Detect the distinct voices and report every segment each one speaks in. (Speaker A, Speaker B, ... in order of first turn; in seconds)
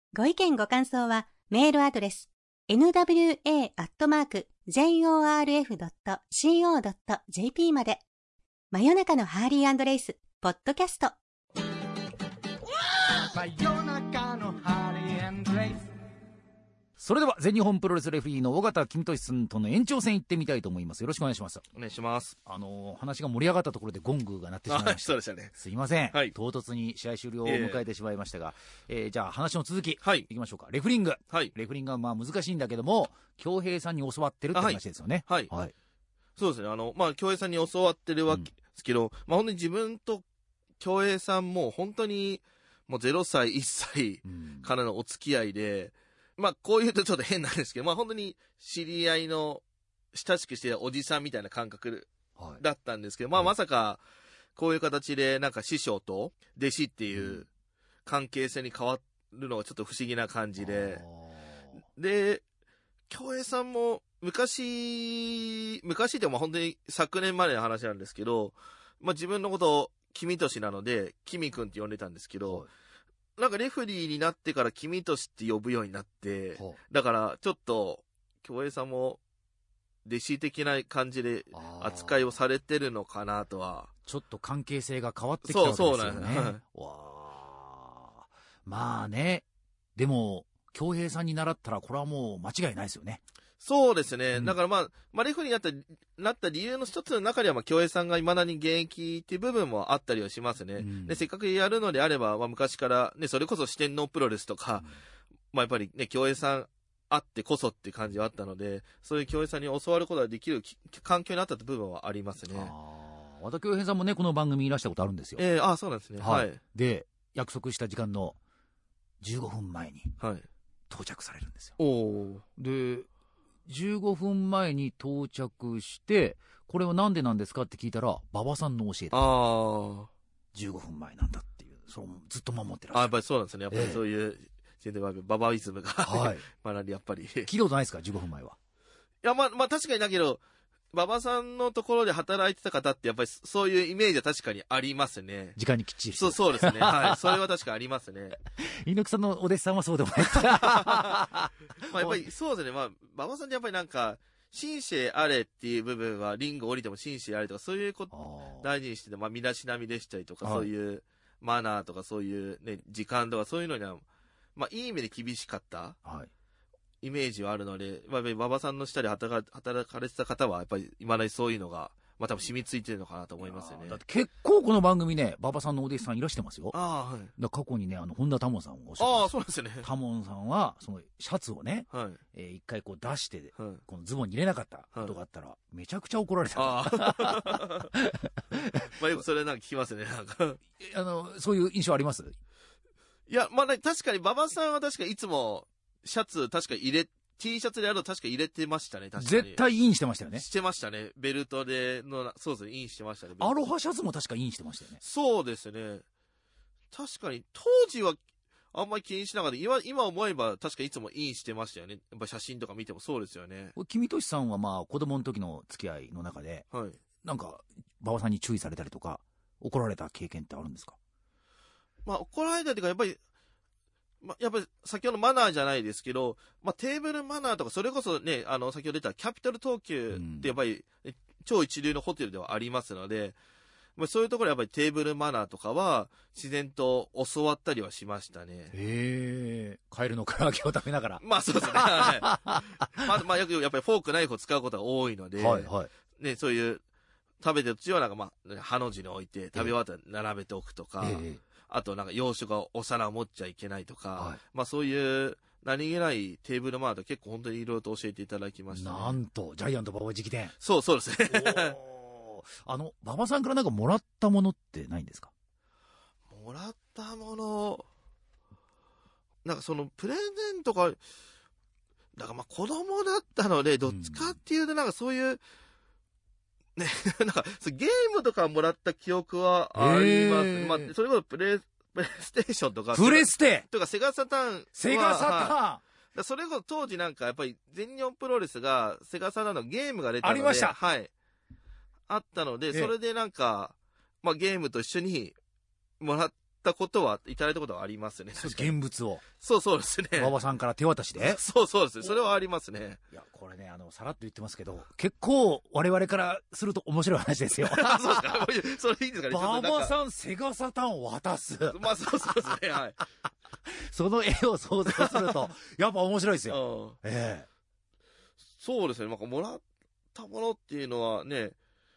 Speaker A: 0.1-8.0, 8.7-11.2
Speaker B: 13.3-15.9
Speaker C: 17.0-21.7, 22.5-35.7, 44.2-44.7, 52.4-52.6, 57.1-57.4, 60.6-61.8, 72.4-72.7, 81.5-82.2, 84.1-93.2, 100.8-101.2, 112.5-115.5, 116.2-118.4, 119.2-120.2, 120.9-121.8, 122.6-123.1, 123.7-129.3, 130.5-133.1, 133.7-134.0, 136.0-136.4, 137.4-138.6, 145.6-147.4, 148.6-152.2, 158.1-158.7, 160.4-160.7, 166.1-166.3, 173.4-176.8, 177.4-188.7, 190.8-192.4, 199.2-200.5, 203.4-205.0, 213.8-216.7, 217.2-221.0, 230.1-230.5, 238.7-242.9, 245.4-245.9, 251.0-251.4, 258.7-260.6, 261.3-265.3, 273.9-274.4, 279.8-280.9, 282.9-283.7, 284.8-285.8, 290.2-290.8, 298.4-299.2, 300.1-301.4, 303.1-308.5, 309.3-311.8, 313.7-317.5
Speaker D: 21.8-22.4, 24.7-25.5, 27.4-27.8, 30.0-30.3, 34.5-35.5, 36.4-40.2, 40.8-54.0, 54.6-57.5, 58.1-61.0, 62.0-62.4, 63.1-72.7, 73.4-79.2, 80.1-83.9, 85.4-86.6, 93.6-104.9, 105.5-112.7, 115.4-116.6, 120.2-120.5, 121.8-122.4, 129.1-130.1, 132.9-137.5, 139.2-145.6, 146.2-148.4, 150.2-151.2, 151.9-164.1, 164.6-166.0, 167.0-174.0, 176.7-177.3, 179.0-179.9, 181.9-182.2, 183.6-183.8, 186.6-187.9, 188.7-190.6, 193.3-199.6, 200.3-203.6, 205.0-206.1, 206.9-208.2, 208.7-213.8, 216.7-217.0, 222.1-223.2, 224.2-233.4, 234.0-238.7, 241.2-242.3, 243.1-246.8, 247.4-259.2, 260.6-261.8, 266.3-267.9, 269.4-271.0, 272.2-275.4, 276.8-285.6, 286.1-291.1, 292.1-295.4, 296.0-298.8, 299.4-300.4, 301.2-303.0, 307.6-309.9, 311.7-313.0, 314.9-315.4, 316.5-317.0, 318.6-319.6, 320.1-321.6